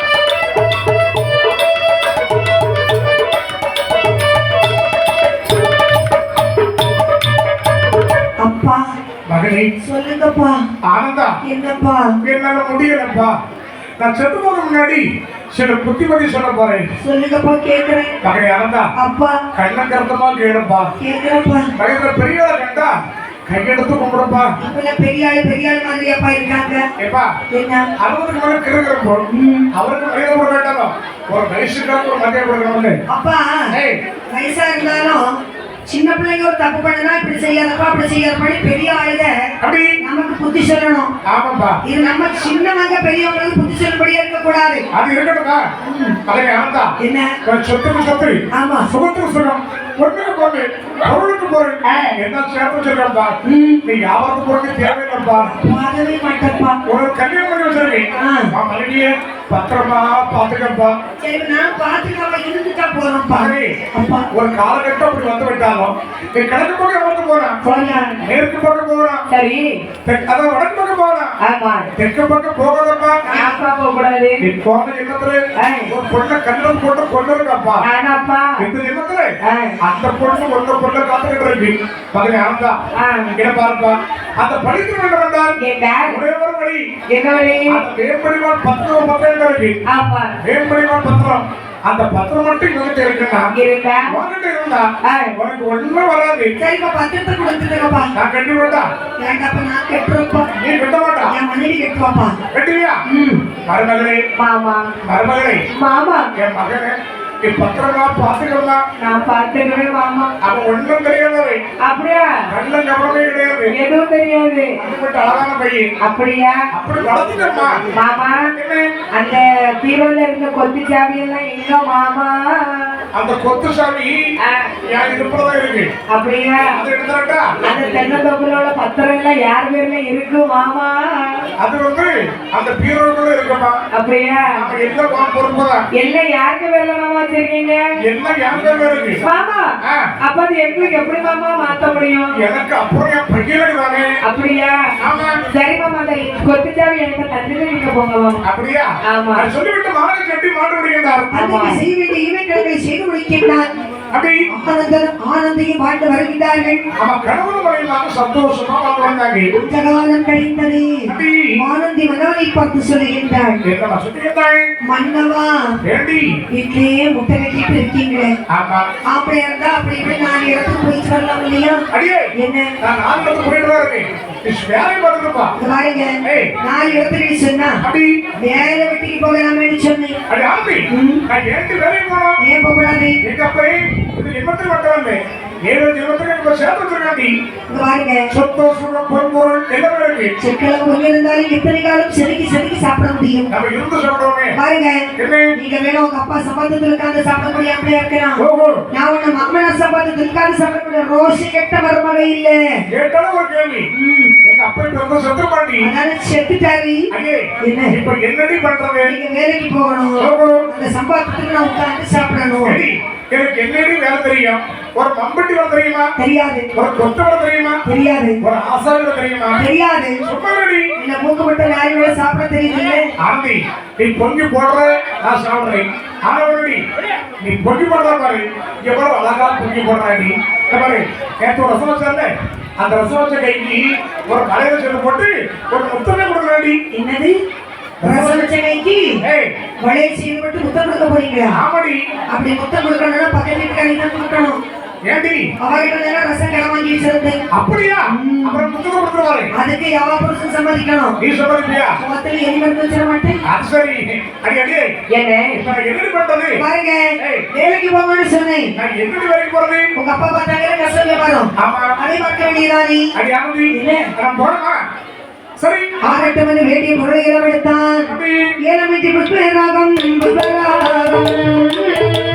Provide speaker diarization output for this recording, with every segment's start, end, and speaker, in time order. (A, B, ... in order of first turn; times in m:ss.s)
0:08.4-0:08.8 A
0:09.3-0:09.7 B
0:09.8-0:10.6 A
0:10.9-0:11.4 B
0:11.4-0:12.1 A
0:12.2-0:13.3 B
0:14.0-0:16.9 B
0:17.0-0:18.2 A
0:18.2-0:18.9 B
0:19.0-0:19.4 A
0:19.5-0:20.9 B
0:21.0-0:21.7 A
0:21.8-0:22.9 B
0:23.5-0:24.5 B
0:24.6-0:26.8 A
0:27.0-0:27.3 B
0:27.5-0:27.9 A
0:28.0-0:33.0 B
0:29.3-0:29.6 A
0:33.1-0:33.6 A
0:33.7-0:34.0 B
0:34.3-0:35.3 A
0:35.9-0:39.3 A
0:39.6-0:39.9 B
0:40.0-0:41.1 A
0:41.2-0:41.8 B
0:41.8-0:44.8 A
0:44.9-0:45.6 B
0:45.8-0:46.2 A
0:46.2-0:46.9 B
0:47.0-0:47.3 A
0:47.4-0:55.5 B
0:48.5-0:48.9 A
0:53.4-0:53.8 A
0:55.5-0:56.8 A
0:56.8-1:00.9 B
0:58.2-0:58.5 A
1:01.2-1:04.3 A
1:03.3-1:03.7 B
1:04.3-1:07.6 B
1:07.6-1:08.1 A
1:07.6-1:08.2 C
1:08.2-1:09.2 B
1:09.3-1:09.7 C
1:10.0-1:11.4 B
1:11.4-1:11.9 C
1:11.9-1:13.2 B
1:13.2-1:13.6 A
1:13.3-1:14.4 C
1:14.4-1:17.8 B
1:15.6-1:15.9 C
1:17.8-1:18.6 C
1:18.6-1:22.8 B
1:19.4-1:19.7 C
1:23.0-1:23.4 C
1:23.4-1:25.5 B
1:25.6-1:26.2 C
1:26.1-1:26.8 B
1:27.1-1:27.8 C
1:27.7-1:29.8 B
1:29.9-1:30.3 C
1:30.4-1:33.5 B
1:33.5-1:34.2 C
1:34.1-1:36.5 B
1:35.0-1:35.3 C
1:36.6-1:38.1 A
1:38.1-1:38.9 B
1:39.2-1:40.5 A
1:40.5-1:41.3 B
1:41.3-1:42.3 A
1:42.5-1:43.0 B
1:43.1-1:43.4 A
1:43.6-1:44.2 B
1:44.4-1:45.0 C
1:45.0-1:45.6 B
1:45.8-1:46.3 C
1:46.4-1:48.8 B
1:49.0-1:50.3 C
1:50.4-1:51.6 B
1:51.8-1:52.3 C
1:52.5-1:53.7 B
1:53.7-1:54.7 C
1:54.8-1:55.9 B
1:56.0-1:56.6 C
1:56.7-1:57.8 B
1:57.9-1:58.5 C
1:58.5-1:58.9 B
1:59.1-2:03.0 C
2:03.1-2:04.2 B
2:04.4-2:04.7 C
2:04.9-2:05.9 B
2:06.1-2:06.7 C
2:06.6-2:07.6 B
2:07.6-2:11.4 C
2:11.6-2:13.8 B
2:13.9-2:14.6 C
2:14.5-2:15.8 B
2:15.9-2:17.8 C
2:18.0-2:19.2 B
2:19.2-2:19.7 C
2:20.2-2:22.3 C
2:22.3-2:24.2 B
2:24.2-2:24.8 C
2:25.0-2:25.4 B
2:25.5-2:28.4 C
2:28.4-2:31.4 B
2:29.1-2:29.5 C
2:31.3-2:31.8 C
2:31.3-2:33.7 A
2:34.1-2:34.4 B
2:34.5-2:36.8 A
2:37.0-2:39.5 B
2:39.5-2:43.6 A
2:41.1-2:41.6 B
2:43.6-2:44.7 B
2:44.8-2:45.6 A
2:45.8-2:46.4 B
2:46.5-2:48.3 A
2:48.5-2:48.9 B
2:49.1-2:51.8 A
2:51.9-2:52.3 B
2:52.4-2:52.7 A
2:52.8-2:55.5 B
2:55.6-2:57.8 A
2:56.2-2:56.5 B
2:57.8-2:58.1 B
2:58.4-3:00.2 A
3:00.3-3:02.4 B
3:00.9-3:01.2 A
3:02.4-3:03.2 A
3:03.2-3:07.3 B
3:07.7-3:08.2 A
3:08.3-3:10.3 B
3:10.4-3:13.5 A
3:13.5-3:14.6 B
3:14.5-3:18.4 A
3:15.2-3:15.5 B
3:18.4-3:18.8 B
3:18.9-3:22.6 A
3:22.9-3:23.9 B
3:23.9-3:24.3 A
3:24.4-3:25.9 B
3:25.8-3:27.1 A
3:27.1-3:29.1 B
3:27.6-3:28.0 A
3:29.0-3:32.8 A
3:30.2-3:30.6 B
3:32.6-3:36.1 B
3:36.2-3:36.7 A
3:36.7-3:37.8 B
3:37.8-3:38.4 A
3:38.4-3:39.6 B
3:39.6-3:40.2 A
3:40.2-3:40.9 B
3:41.0-3:43.0 A
3:43.2-3:46.8 B
3:47.4-3:56.8 B
3:56.9-3:57.4 A
3:58.0-3:58.5 B
3:58.0-3:59.2 A
3:59.2-3:59.5 B
3:59.8-4:01.6 A
4:01.5-4:02.0 B
4:02.3-4:04.6 A
4:05.1-4:05.5 B
4:05.6-4:07.4 A
4:07.5-4:09.5 B
4:08.1-4:08.6 A
4:09.5-4:11.2 A
4:11.2-4:12.0 B
4:12.0-4:13.4 A
4:13.5-4:14.9 B
4:15.1-4:15.7 C
4:15.5-4:16.6 B
4:16.6-4:18.7 A
4:17.2-4:17.5 B
4:18.8-4:19.9 B
4:20.0-4:23.1 A
4:21.6-4:21.9 B
4:23.1-4:24.8 B
4:23.7-4:24.1 A
4:25.6-4:26.1 B
4:26.0-4:31.7 A
4:28.1-4:28.5 B